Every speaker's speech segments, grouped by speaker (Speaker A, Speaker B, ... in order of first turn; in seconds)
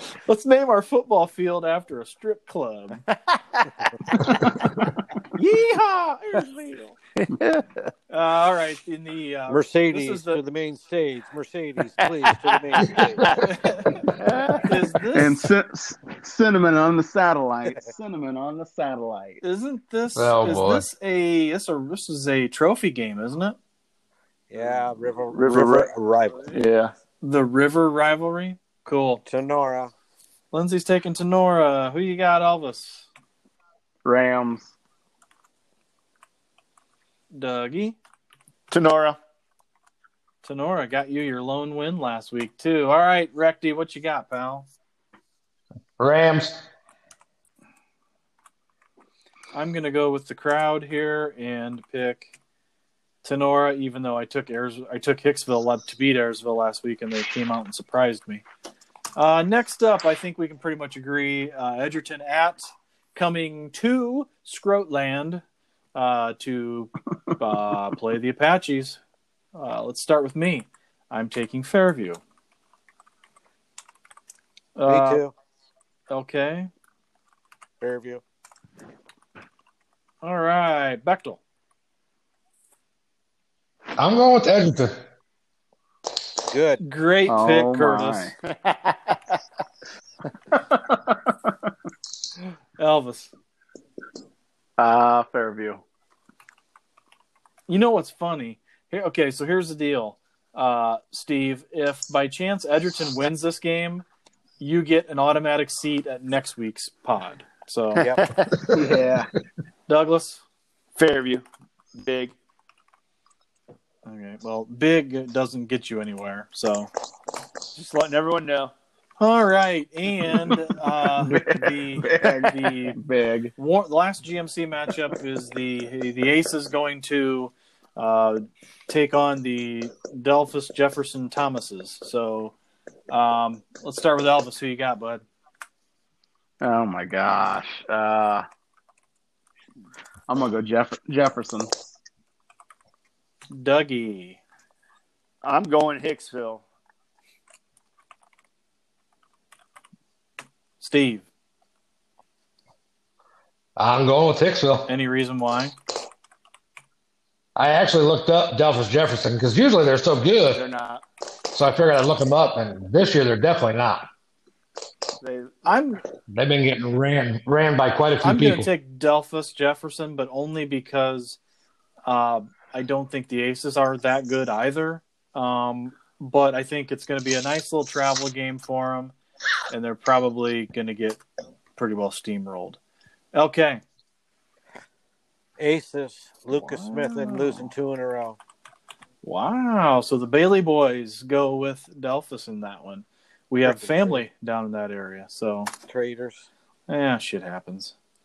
Speaker A: 0.3-3.0, 5.3-7.0, 8.1-10.4, 13.4-13.9, 14.6-15.4, 19.4-23.6, 27.2-29.2, 30.5-33.1, 37.3-38.0, 40.4-44.7, 49.5-52.3, 53.2-58.4, 59.2-65.4, 66.0-69.0, 69.5-72.2, 74.8-75.2, 76.1-76.7, 80.2-81.4, 86.8-88.3, 92.8-93.3, 97.7-104.0, 104.6-108.1, 109.9-110.4, 114.0-116.9, 119.2-123.0, 123.6-132.5, 133.1-135.2, 143.5-144.4, 150.8-151.3, 154.9-155.7, 165.7-166.0, 168.2-171.4, 172.1-179.1, 179.7-181.2, 181.8-182.8, 183.3-183.8, 186.5-187.7, 189.2-195.7, 196.9-197.9
Speaker B: 3.3-3.7, 7.2-7.9, 12.0-13.4, 14.2-14.7, 25.3-25.9, 26.5-26.9, 38.7-39.2, 88.5-89.4, 108.0-108.7, 111.0-112.3, 117.7-118.7, 145.4-146.6, 160.5-161.0, 165.2-165.7
Speaker C: 9.5-13.5, 24.5-26.5, 29.3-29.9, 74.8-75.3, 77.8-78.2, 86.5-86.8, 185.6-188.4, 193.6-194.3, 195.8-196.5
Speaker D: 15.1-19.4, 34.0-34.7, 87.3-88.3, 90.5-91.7, 94.8-95.8, 108.7-109.3, 120.2-120.6, 121.2-123.5, 136.6-138.5, 140.3-141.8
Speaker E: 20.1-20.9, 46.0-46.6, 84.0-85.0, 153.8-154.9, 157.6-160.6, 161.5-164.1, 166.3-168.7